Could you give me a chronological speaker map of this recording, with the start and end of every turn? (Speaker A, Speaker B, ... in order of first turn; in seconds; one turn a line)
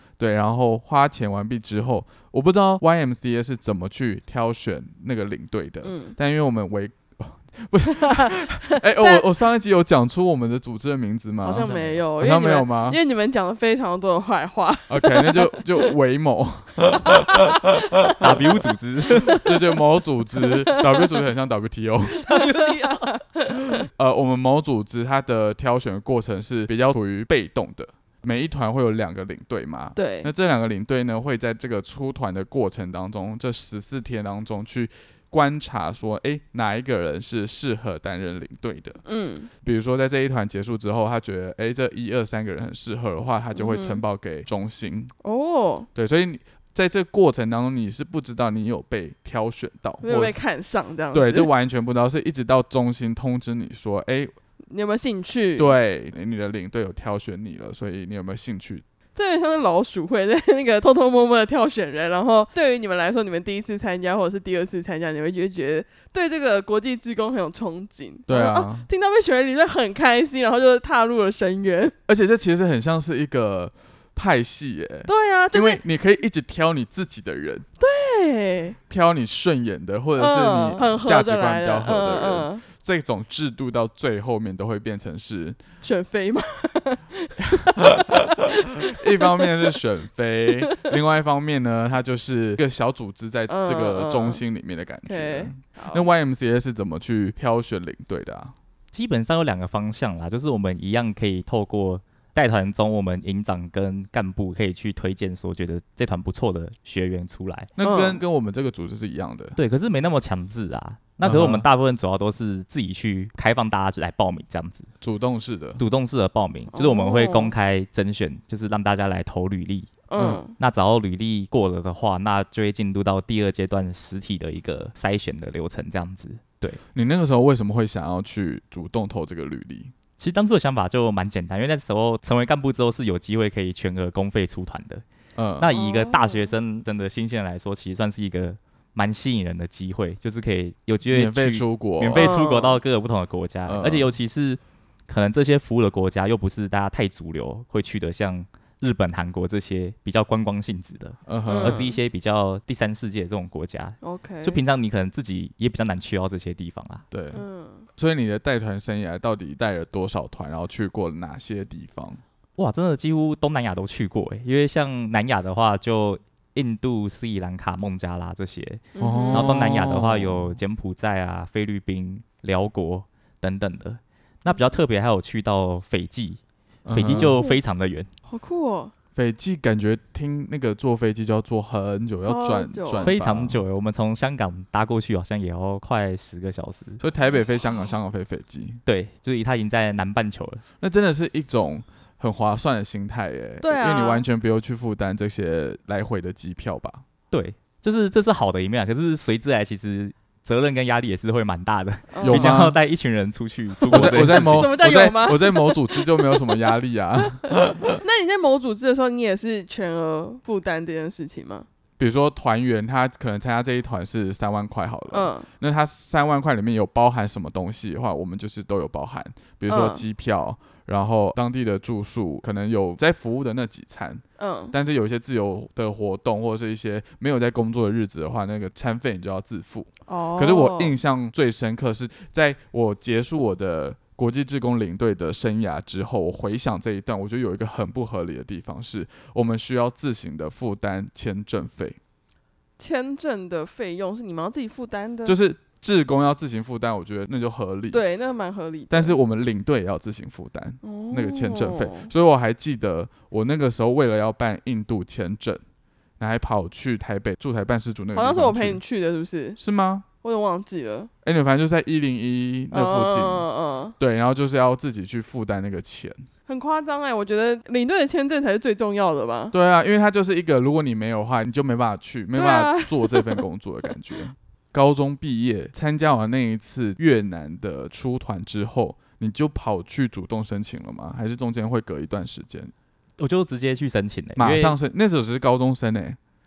Speaker A: 0.2-13.0
Speaker B: 5.8-6.2
Speaker B: 7.9-9.3
Speaker B: 11.4-15.9
Speaker C: 11.6-12.0
Speaker A: 14.9-17.3
Speaker B: 17.1-19.5
Speaker C: 18.1-19.5
Speaker A: 19.3-22.2
Speaker B: 20.4-21.2
Speaker B: 22.1-23.7
Speaker C: 22.2-23.2
Speaker A: 23.8-39.0
Speaker B: 30.0-30.3
Speaker B: 39.0-39.5
Speaker A: 39.6-45.1
Speaker B: 43.5-44.0
Speaker B: 45.2-45.9
Speaker A: 46.0-50.4
Speaker B: 50.0-51.5
Speaker A: 51.1-54.3
Speaker B: 54.7-55.8
Speaker A: 55.6-58.8
Speaker B: 59.1-72.0
Speaker A: 68.3-68.9
Speaker A: 72.1-77.7
Speaker B: 75.1-75.8
Speaker B: 77.8-78.8
Speaker A: 78.9-85.6
Speaker B: 80.2-82.6
Speaker B: 85.8-89.5
Speaker A: 88.9-98.5
Speaker B: 93.5-94.4
Speaker B: 95.1-96.1
Speaker C: 98.9-107.7
Speaker A: 107.8-109.6
Speaker B: 107.8-108.2
Speaker C: 109.6-114.9
Speaker A: 111.2-111.7
Speaker A: 115.0-115.8
Speaker C: 115.8-119.9
Speaker B: 116.7-117.5
Speaker B: 120.1-120.5
Speaker C: 120.6-126.8
Speaker A: 126.9-129.9
Speaker C: 130.2-135.0
Speaker A: 135.4-135.7
Speaker C: 135.6-157.1
Speaker B: 135.7-136.5
Speaker A: 141.1-142.4
Speaker B: 142.1-142.8
Speaker A: 143.7-144.1
Speaker A: 151.3-151.8
Speaker B: 151.5-152.0
Speaker B: 154.0-154.6
Speaker A: 157.1-157.4
Speaker B: 157.3-157.9
Speaker A: 158.0-162.2
Speaker C: 162.6-176.4
Speaker B: 169.0-169.6
Speaker A: 169.0-170.6
Speaker A: 176.8-177.4
Speaker C: 176.9-178.1
Speaker B: 177.0-177.6
Speaker B: 178.3-178.9
Speaker A: 179.2-183.6
Speaker B: 182.2-183.1
Speaker C: 183.0-187.0
Speaker A: 187.0-188.8
Speaker C: 188.9-190.6
Speaker A: 190.8-197.0
Speaker B: 193.6-194.2
Speaker C: 197.3-204.7
Speaker B: 202.1-202.5
Speaker A: 202.2-202.8
Speaker A: 203.9-208.0
Speaker B: 203.9-206.6
Speaker B: 208.0-211.7
Speaker A: 212.0-242.0
Speaker B: 215.1-215.5
Speaker B: 219.7-220.0
Speaker B: 224.4-224.7
Speaker B: 230.1-230.9
Speaker B: 242.8-245.4
Speaker A: 245.2-248.0
Speaker B: 247.9-249.2
Speaker A: 248.9-255.6
Speaker B: 250.8-252.1
Speaker A: 256.2-258.8
Speaker B: 258.1-259.6
Speaker A: 259.6-260.1
Speaker B: 260.2-261.1
Speaker A: 261.2-263.5
Speaker B: 262.7-264.0
Speaker A: 264.0-266.3
Speaker B: 266.5-269.6
Speaker A: 269.5-282.7
Speaker B: 272.4-273.4
Speaker C: 283.2-284.8
Speaker A: 284.4-286.2